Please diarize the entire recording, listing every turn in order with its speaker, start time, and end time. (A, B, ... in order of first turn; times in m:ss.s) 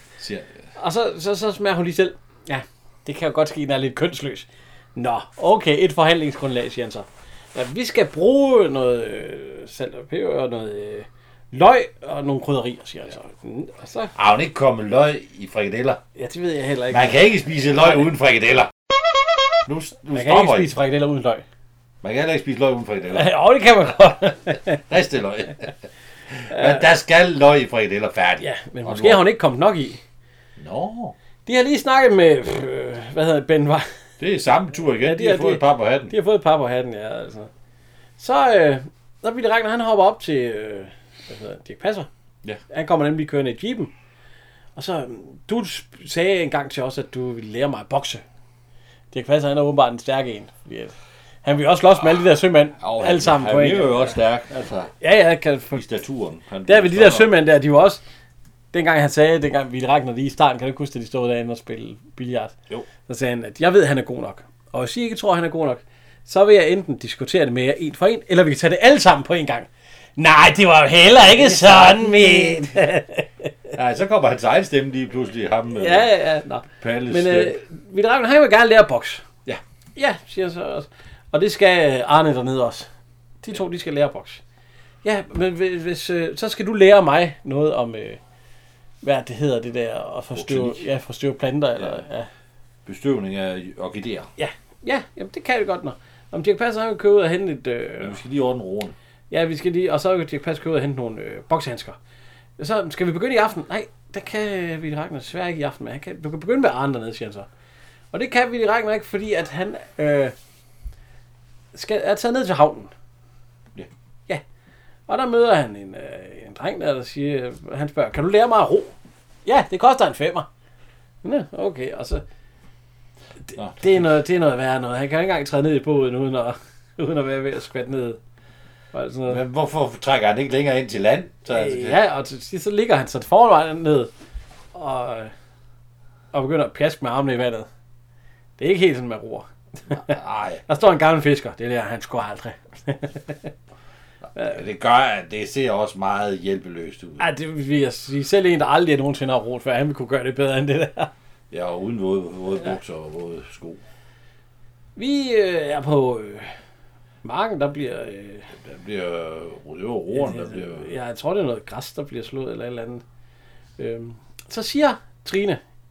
0:00.2-0:00.5 A
0:00.8-0:14.1 B
0:14.2-0:16.0 A
0:16.2-0:17.2 B
0:16.9-0:18.7 A
0:17.8-0:18.0 B
0:19.7-0:20.7 A
0:20.1-0:21.4 B
0:22.0-0:23.3 A
0:23.1-0:24.8 B
0:24.9-0:25.7 A
0:26.3-0:29.2 A
0:26.5-0:26.8 B
0:28.4-0:30.0 B
0:30.6-0:31.2 A
0:31.5-0:33.9 B
0:34.2-0:36.1 A
0:35.0-0:37.5 B
0:38.2-0:42.1 B
0:42.7-0:43.9 B
0:44.8-0:48.2 B
0:49.1-0:54.2 B
0:52.8-0:54.9 A
0:55.0-0:55.8 B
0:55.7-0:57.3 A
0:56.7-0:58.0 B
0:58.7-1:02.5 B
1:03.1-1:13.3 B
1:11.3-1:12.8 A
1:13.7-1:16.1 A
1:15.8-1:19.2 B
1:16.8-1:17.6 A
1:20.0-1:22.9 B
1:23.4-1:24.4 B
1:25.0-1:28.2 B
1:29.0-1:32.3 B
1:30.4-1:30.9 A
1:31.8-1:32.0 A
1:32.9-1:34.3 A
1:34.4-1:38.2 B
1:38.0-1:39.0 A
1:39.3-1:42.0 B
1:42.6-1:47.5 B
1:48.1-1:50.3 B
1:51.7-1:52.9 B
1:55.1-1:58.9 B
1:59.5-2:00.5 B
2:01.2-2:02.2 B
2:03.6-2:04.0 A
2:03.8-2:08.2 B
2:08.9-2:09.4 B
2:09.3-2:12.0 A
2:11.5-2:14.1 B
2:14.7-2:15.3 B
2:16.3-2:17.7 B
2:18.6-2:20.2 B
2:19.9-2:20.6 A
2:20.7-2:23.5 B
2:24.4-2:27.2 A
2:27.2-2:31.1 B
2:31.5-2:33.8 A
2:35.0-2:36.5 B
2:37.2-2:38.5 B
2:38.5-2:40.9 A
2:40.1-2:43.0 B
2:43.8-2:45.6 B